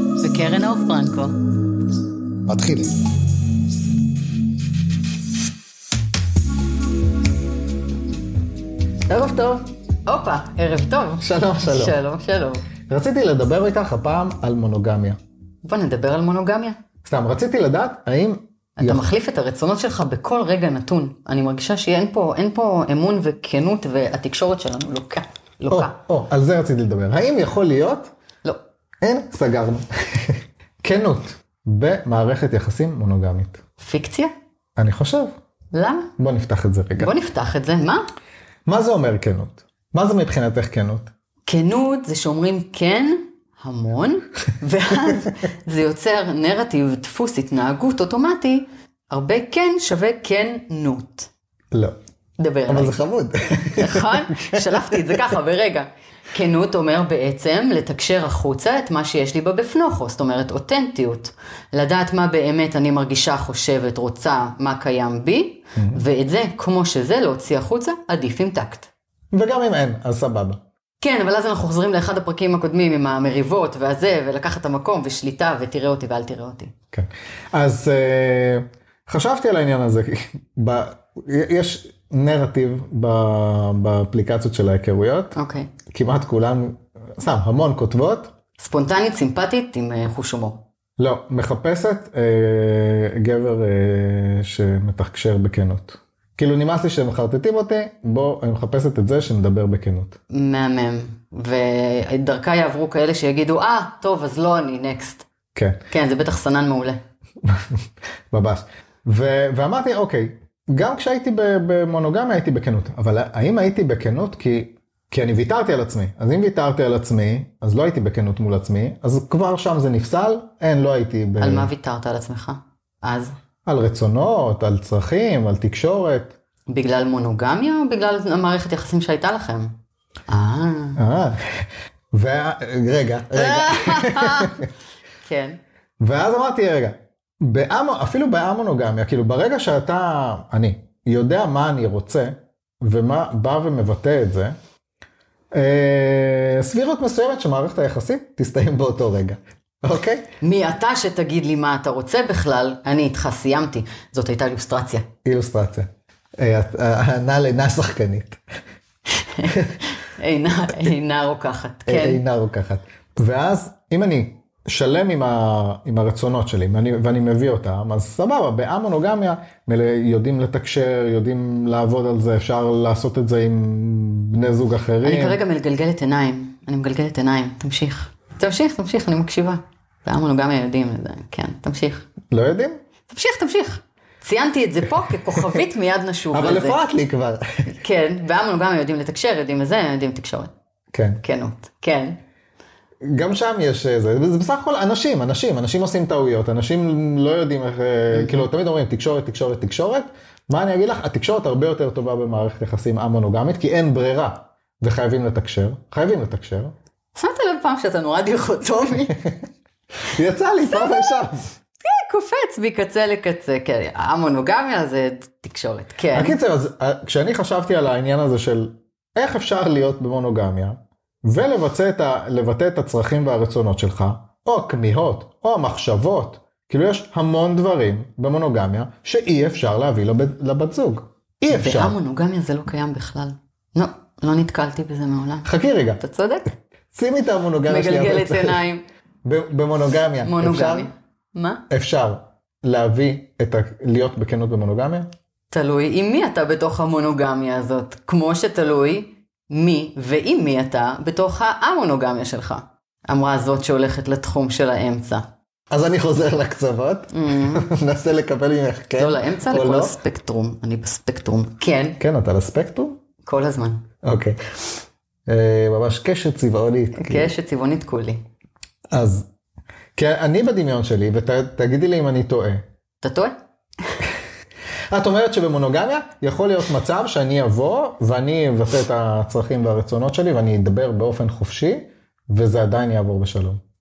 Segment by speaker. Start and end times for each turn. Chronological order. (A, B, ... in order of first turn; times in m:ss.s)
0:00.2-0:01.4 A
0:02.5-0:03.0 B
0:09.1-0:09.6 B
0:10.1-0:12.7 A
0:11.2-0:12.0 B
0:12.9-0:15.2 B
0:15.6-0:16.8 A
0:17.0-0:19.0 B
0:18.8-0:25.9 A
0:25.7-0:28.1 B
0:29.0-0:33.6 B
0:33.8-0:34.3 A
0:34.8-0:35.3 B
0:35.7-0:36.1 A
0:36.2-0:37.1 B
0:37.0-0:38.0 A
0:38.7-0:41.1 B
0:41.5-0:51.3 A
0:52.4-0:53.0 A
0:52.7-0:55.2 B
0:53.8-1:08.9 A
1:05.8-1:06.0 B
1:09.3-1:10.6 B
1:11.0-1:16.7 A
1:16.9-1:25.4 B
1:25.4-1:25.7 A
1:25.9-1:28.3 B
1:28.6-1:30.6 A
1:31.0-1:40.2 B
1:40.3-1:45.2 A
1:45.6-1:45.8 B
1:45.9-1:47.0 A
1:47.4-2:01.7 B
2:01.4-2:03.3 A
2:03.7-2:06.4 B
2:06.7-2:09.7 A
2:10.3-2:11.0 A
2:11.0-2:14.7 B
2:13.4-2:14.6 A
2:15.2-2:15.6 A
2:16.0-2:24.6 B
2:25.5-2:30.3 B
2:30.4-2:35.1 A
2:35.2-2:35.9 B
2:36.4-2:38.4 B
2:39.2-2:42.2 A
2:41.9-2:55.4 B
2:55.0-3:02.1 A
3:02.3-3:02.8 B
3:03.1-3:06.8 A
3:06.3-3:07.4 B
3:07.7-3:10.5 A
3:10.9-3:11.2 B
3:11.2-3:12.2 A
3:13.0-3:26.7 B
3:18.1-3:18.5 A
3:27.2-3:29.2 A
3:30.1-3:31.4 B
3:30.7-3:31.2 A
3:31.8-3:36.4 A
3:36.1-3:52.0 B
3:51.5-3:55.5 A
3:55.4-3:56.0 B
3:56.0-3:56.5 A
3:56.9-3:58.6 B
3:57.7-3:58.8 A
3:59.2-4:00.9 B
4:00.2-4:01.6 A
4:01.7-4:05.1 B
4:05.5-4:15.2 A
4:15.7-4:20.0 B
4:17.1-4:17.7 A
4:19.0-4:22.0 A
4:22.0-4:23.0 B
4:23.2-4:23.8 A
4:24.0-4:24.4 B
4:25.3-4:27.3 B
4:27.0-4:28.2 A
4:28.9-4:29.3 B
4:30.0-4:32.6 B
4:33.0-4:33.3 A
4:34.9-4:43.6 B